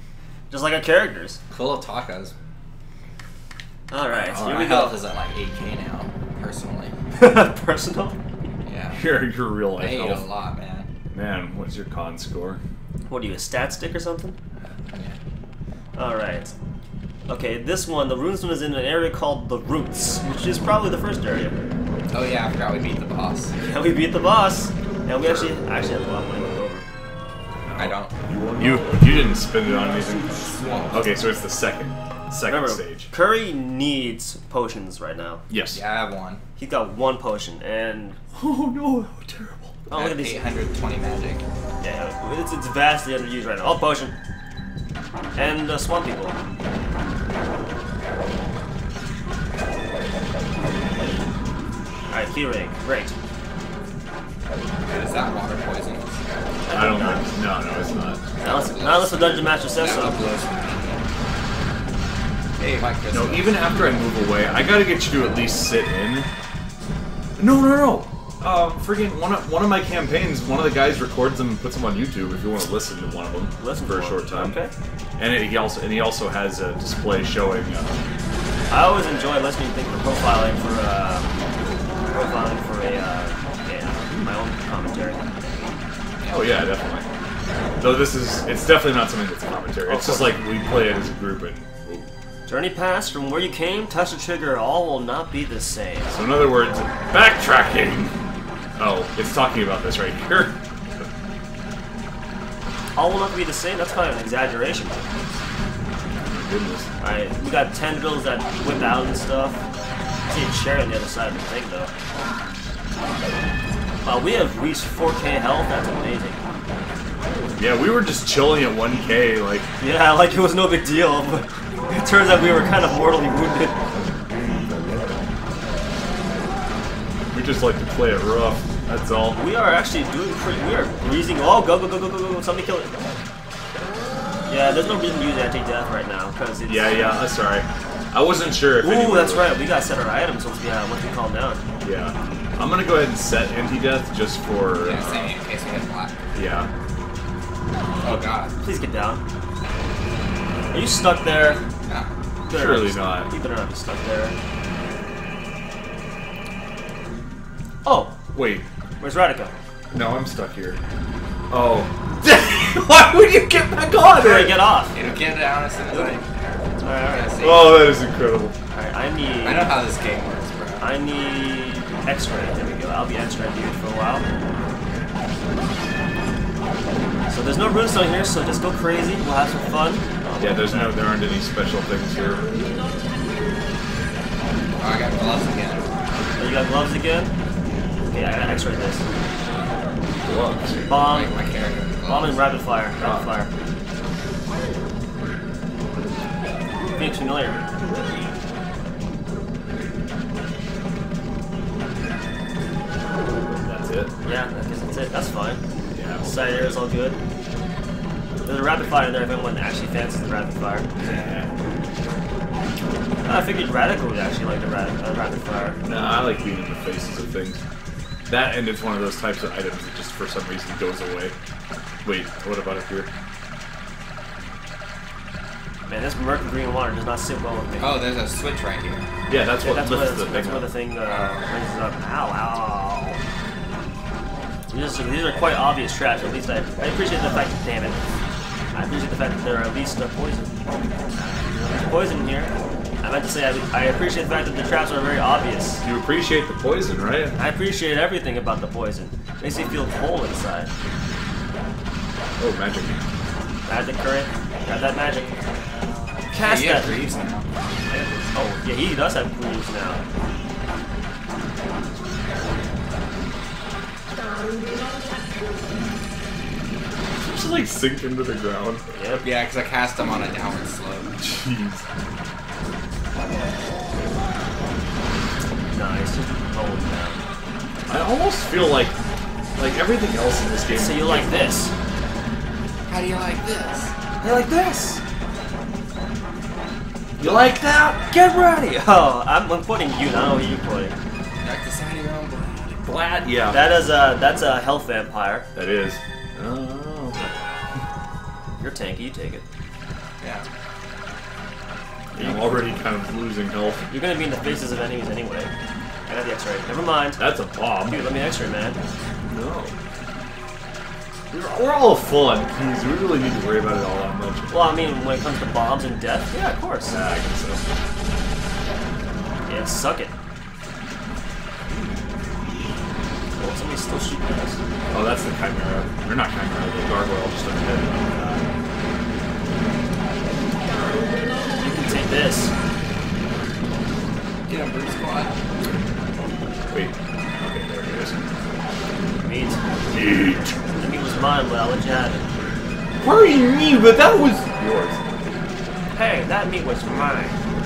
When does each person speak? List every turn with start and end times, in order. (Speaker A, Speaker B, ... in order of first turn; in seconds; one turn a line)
Speaker A: 0.5-1.4
Speaker B: 1.5-2.3
Speaker A: 3.9-5.0
Speaker B: 4.2-6.9
Speaker C: 4.3-4.7
Speaker A: 7.1-8.2
Speaker B: 8.7-9.1
Speaker C: 8.9-10.3
Speaker B: 9.8-10.9
Speaker C: 11.1-12.6
Speaker A: 13.1-14.3
Speaker B: 14.9-15.2
Speaker A: 15.9-16.5
Speaker A: 17.3-21.6
Speaker B: 22.1-23.5
Speaker A: 23.6-26.9
Speaker C: 25.2-25.5
Speaker C: 27.6-28.0
Speaker B: 27.8-28.1
Speaker C: 28.6-33.1
Speaker B: 30.6-31.1
Speaker A: 32.5-35.4
Speaker C: 35.5-35.8
Speaker B: 35.7-36.4
Speaker A: 36.6-38.2
Speaker C: 38.3-39.8
Speaker A: 39.9-40.5
Speaker B: 39.9-41.4
Speaker A: 41.8-44.1
Speaker A: 45.4-46.4
Speaker A: 52.1-53.1
Speaker B: 54.9-56.2
Speaker A: 56.6-57.3
Speaker C: 56.7-58.3
Speaker B: 58.4-61.0
Speaker A: 58.4-60.3
Speaker B: 62.6-63.6
Speaker C: 63.1-66.3
Speaker C: 67.4-74.6
Speaker A: 73.6-74.7
Speaker C: 75.2-78.0
Speaker A: 78.7-81.4
Speaker A: 82.1-85.7
Speaker C: 86.2-87.0
Speaker C: 87.8-92.1
Speaker A: 89.8-90.4
Speaker A: 92.5-96.2
Speaker C: 96.1-98.1
Speaker C: 98.8-101.1
Speaker A: 102.9-105.2
Speaker C: 106.2-106.9
Speaker A: 107.0-109.6
Speaker A: 110.3-111.9
Speaker A: 114.0-116.4
Speaker C: 117.6-119.7
Speaker A: 119.8-123.8
Speaker C: 127.3-129.4
Speaker A: 129.3-133.0
Speaker A: 134.5-137.3
Speaker C: 136.7-139.6
Speaker A: 138.8-141.6
Speaker C: 141.8-145.3
Speaker B: 144.8-146.2
Speaker C: 146.3-146.7
Speaker B: 148.0-148.5
Speaker A: 148.0-149.2
Speaker A: 150.7-151.6
Speaker B: 151.8-152.1
Speaker A: 152.5-154.4
Speaker C: 152.5-153.3
Speaker A: 157.8-158.2
Speaker C: 158.3-158.7
Speaker A: 159.0-159.5
Speaker C: 159.9-160.8
Speaker C: 161.5-164.6
Speaker A: 164.1-164.9
Speaker B: 164.9-166.2
Speaker A: 165.9-166.2
Speaker A: 166.8-167.5
Speaker B: 167.0-167.8
Speaker C: 167.4-168.6
Speaker A: 168.7-169.8
Speaker B: 169.4-170.9
Speaker A: 170.8-174.3
Speaker A: 177.3-181.0
Speaker C: 180.4-182.5
Speaker B: 184.8-185.9
Speaker C: 186.1-186.3
Speaker A: 186.4-187.3
Speaker A: 188.1-189.0
Speaker C: 188.1-188.6
Speaker C: 190.2-190.9
Speaker A: 190.8-191.3
Speaker B: 191.0-192.7
Speaker A: 192.1-193.5
Speaker C: 193.0-193.4
Speaker A: 196.9-197.7
Speaker C: 203.5-204.4
Speaker A: 204.2-205.6
Speaker C: 205.9-206.8
Speaker A: 206.2-207.2
Speaker A: 208.4-210.8
Speaker C: 211.0-211.5
Speaker A: 213.2-215.8
Speaker C: 215.8-217.6
Speaker C: 218.3-221.3
Speaker C: 222.0-223.1
Speaker A: 225.8-228.1
Speaker B: 227.8-229.1
Speaker C: 229.3-230.8
Speaker A: 229.6-233.2
Speaker A: 234.7-238.0
Speaker A: 238.7-240.5
Speaker A: 241.1-242.5
Speaker A: 243.0-245.8
Speaker C: 245.8-247.3
Speaker A: 247.3-250.7
Speaker C: 252.4-253.1
Speaker A: 253.7-255.4
Speaker B: 255.0-257.5
Speaker A: 256.3-257.0
Speaker A: 257.9-260.0
Speaker C: 267.2-269.2
Speaker A: 268.9-269.2
Speaker B: 269.2-271.1
Speaker C: 271.2-271.8
Speaker A: 275.7-277.2
Speaker C: 277.9-278.9
Speaker C: 279.6-281.3
Speaker A: 280.7-281.7
Speaker B: 282.9-283.9
Speaker A: 284.2-285.0
Speaker C: 287.2-288.0
Speaker A: 288.1-290.9
Speaker B: 291.4-292.8
Speaker C: 292.8-293.7
Speaker A: 293.5-295.5
Speaker C: 295.5-297.3
Speaker A: 298.6-299.4
Speaker B: 300.2-300.4
Speaker C: 302.1-303.9
Speaker A: 302.1-302.7
Speaker A: 303.9-305.5
Speaker A: 306.1-307.2
Speaker C: 307.2-308.0
Speaker A: 307.9-308.8
Speaker C: 309.3-309.7
Speaker C: 311.3-314.5
Speaker A: 314.5-317.0
Speaker C: 316.9-317.6
Speaker A: 319.5-320.1
Speaker A: 323.4-324.6
Speaker C: 324.9-328.4
Speaker A: 331.6-332.5
Speaker B: 334.5-335.4
Speaker C: 336.7-338.3
Speaker A: 339.2-339.6
Speaker C: 339.9-340.6
Speaker A: 340.8-342.2
Speaker C: 343.0-345.0
Speaker A: 345.9-347.4